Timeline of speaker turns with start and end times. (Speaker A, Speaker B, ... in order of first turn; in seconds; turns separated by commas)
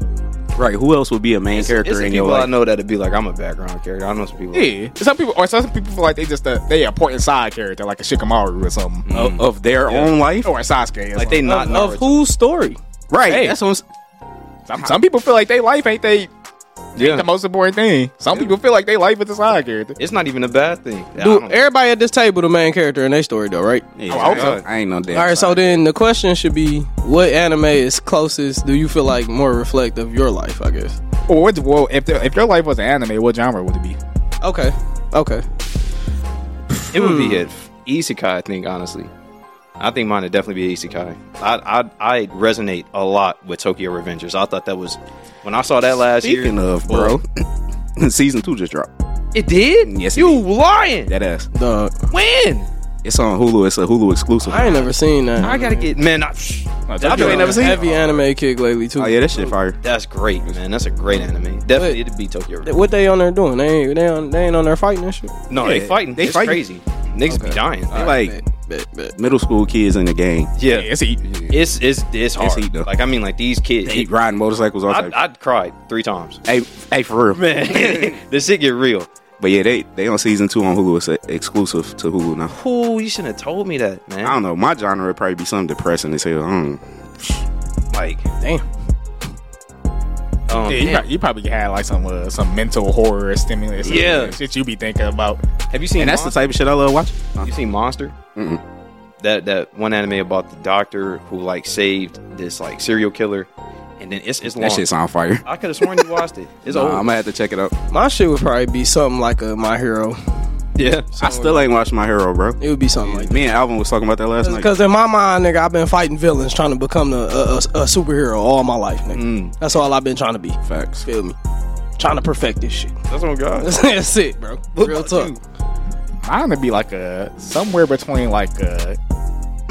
Speaker A: 0.6-2.5, Speaker B: 1.5-4.7, Speaker C: 4.5-9.1, Speaker B: 9.1-10.1, Speaker A: 9.1-10.5, Speaker C: 10.4-11.5, Speaker B: 11.2-12.2, Speaker D: 11.4-12.8, Speaker A: 13.1-13.8, Speaker C: 13.2-13.6, Speaker C: 14.7-16.3, Speaker B: 16.9-17.2, Speaker C: 16.9-20.0, Speaker B: 20.0-21.6, Speaker D: 21.2-23.9, Speaker A: 24.0-25.8, Speaker C: 24.1-24.6, Speaker B: 24.1-24.6, Speaker D: 25.1-31.0, Speaker C: 31.3-34.0, Speaker D: 34.4-35.4, Speaker D: 36.7-37.5, Speaker B: 36.9-39.1, Speaker B: 39.8-47.2, Speaker A: 46.2-47.4, Speaker A: 48.0-48.9, Speaker B: 49.3-51.1, Speaker A: 49.8-50.4, Speaker A: 51.0-51.5, Speaker D: 51.5-51.9, Speaker B: 52.1-52.7, Speaker A: 53.0-54.8, Speaker D: 54.4-55.9, Speaker B: 55.4-57.8, Speaker C: 56.9-58.2, Speaker A: 57.0-57.8, Speaker D: 57.1-59.2, Speaker A: 59.0-59.8, Speaker B: 59.8-62.8, Speaker D: 62.6-65.3, Speaker B: 65.5-68.0, Speaker A: 65.6-66.6, Speaker D: 67.3-69.1, Speaker A: 67.9-68.4, Speaker A: 69.1-70.5, Speaker B: 70.6-70.9, Speaker C: 70.7-71.2, Speaker A: 71.3-71.5, Speaker B: 71.5-74.0, Speaker A: 72.4-72.9, Speaker A: 73.8-75.2, Speaker B: 74.9-76.4, Speaker A: 76.5-78.1, Speaker B: 77.3-79.1, Speaker A: 79.4-82.5, Speaker B: 82.5-84.3, Speaker A: 84.2-87.3, Speaker B: 87.9-88.3, Speaker B: 90.5-91.1, Speaker C: 90.6-95.4, Speaker B: 93.8-94.3, Speaker B: 95.7-96.4, Speaker A: 96.0-97.5, Speaker B: 97.4-98.1, Speaker A: 98.3-98.6, Speaker B: 99.2-103.5, Speaker B: 104.0-104.8, Speaker A: 104.6-105.4, Speaker B: 105.4-107.1, Speaker A: 106.7-107.7, Speaker D: 107.9-110.2, Speaker B: 110.8-111.1, Speaker D: 111.2-111.7, Speaker A: 111.2-114.7, Speaker D: 112.6-113.4, Speaker D: 114.4-121.3, Speaker B: 119.1-119.5, Speaker A: 120.6-121.0, Speaker D: 122.0-122.9, Speaker B: 123.1-123.7, Speaker D: 123.6-125.3, Speaker B: 124.7-125.4, Speaker C: 126.2-129.0